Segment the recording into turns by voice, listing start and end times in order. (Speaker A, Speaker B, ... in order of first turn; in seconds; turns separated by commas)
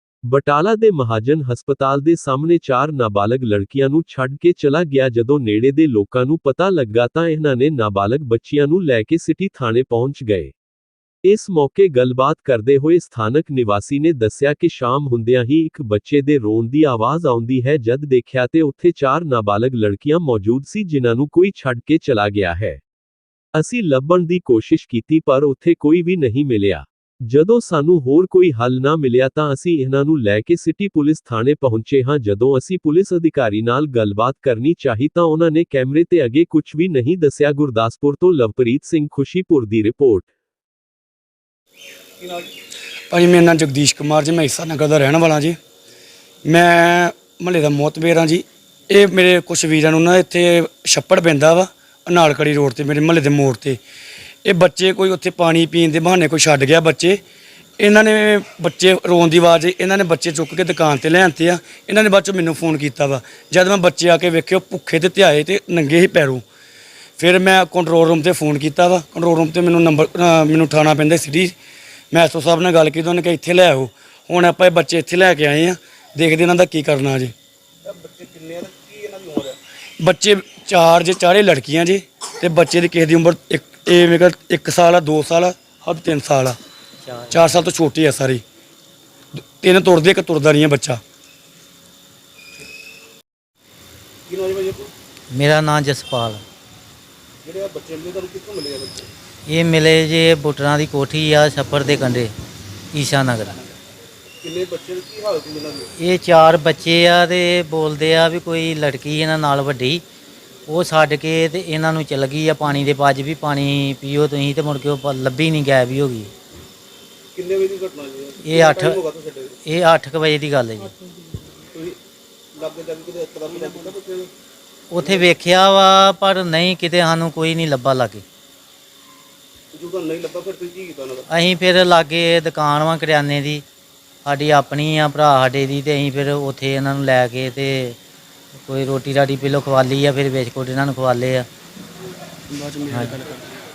Speaker A: 0.2-10.5, Speaker A: 11.2-22.8, Speaker A: 23.6-40.3, Speaker B: 42.2-42.5, Speaker C: 43.1-45.6, Speaker C: 46.5-53.8, Speaker C: 54.5-57.2, Speaker C: 57.8-66.4, Speaker C: 67.2-71.5, Speaker C: 72.1-77.3, Speaker B: 77.8-79.6, Speaker C: 80.0-86.6, Speaker D: 87.0-87.4, Speaker C: 87.3-88.4, Speaker C: 89.4-91.0, Speaker B: 94.3-94.9, Speaker D: 95.3-96.4, Speaker B: 97.4-99.1, Speaker D: 99.5-102.3, Speaker D: 102.9-103.6, Speaker B: 104.4-105.9, Speaker D: 106.0-110.0, Speaker D: 110.7-116.3, Speaker B: 117.3-119.6, Speaker D: 118.4-119.0, Speaker D: 119.7-121.0, Speaker B: 121.7-122.0, Speaker B: 122.5-124.3, Speaker D: 124.9-128.2, Speaker B: 125.0-125.3, Speaker B: 129.7-131.3, Speaker D: 131.3-133.6, Speaker D: 134.2-138.0, Speaker D: 138.7-141.5, Speaker C: 142.5-143.5